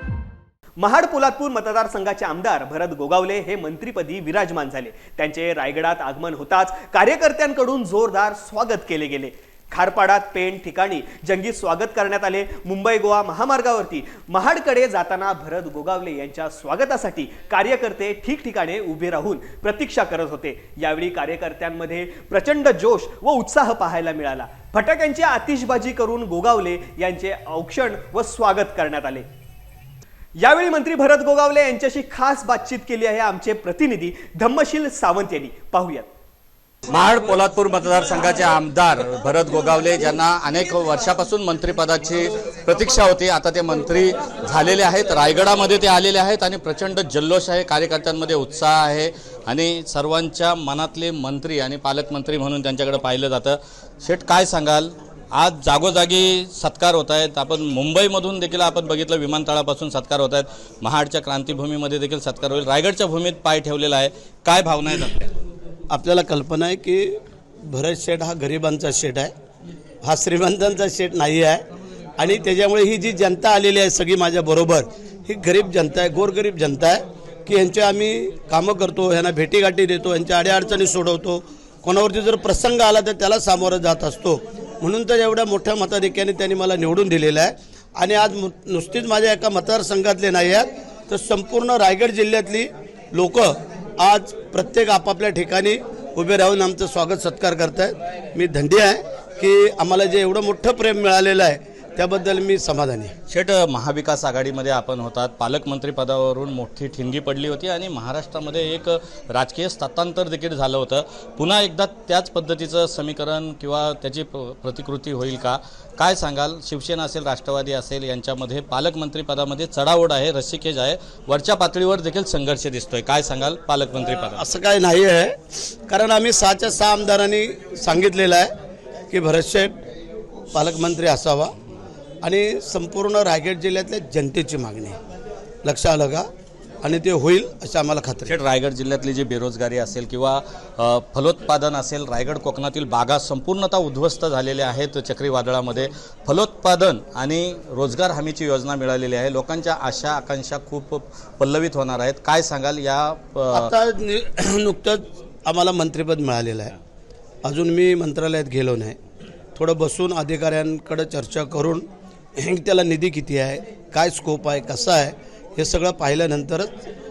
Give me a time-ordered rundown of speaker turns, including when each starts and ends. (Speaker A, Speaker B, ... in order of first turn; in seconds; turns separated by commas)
Speaker A: 0.8-29.2, Speaker A: 30.4-36.1, Speaker B: 36.9-65.3, Speaker C: 65.9-69.3, Speaker C: 70.0-71.6, Speaker C: 72.2-103.1, Speaker B: 103.3-124.4, Speaker C: 124.3-125.3, Speaker C: 125.9-128.5, Speaker C: 129.1-129.8, Speaker C: 130.5-131.5, Speaker C: 132.2-135.0, Speaker C: 135.6-136.2, Speaker C: 136.8-138.3, Speaker B: 138.2-153.7, Speaker C: 153.5-156.7, Speaker C: 157.4-159.0, Speaker C: 159.5-161.8, Speaker C: 162.4-166.7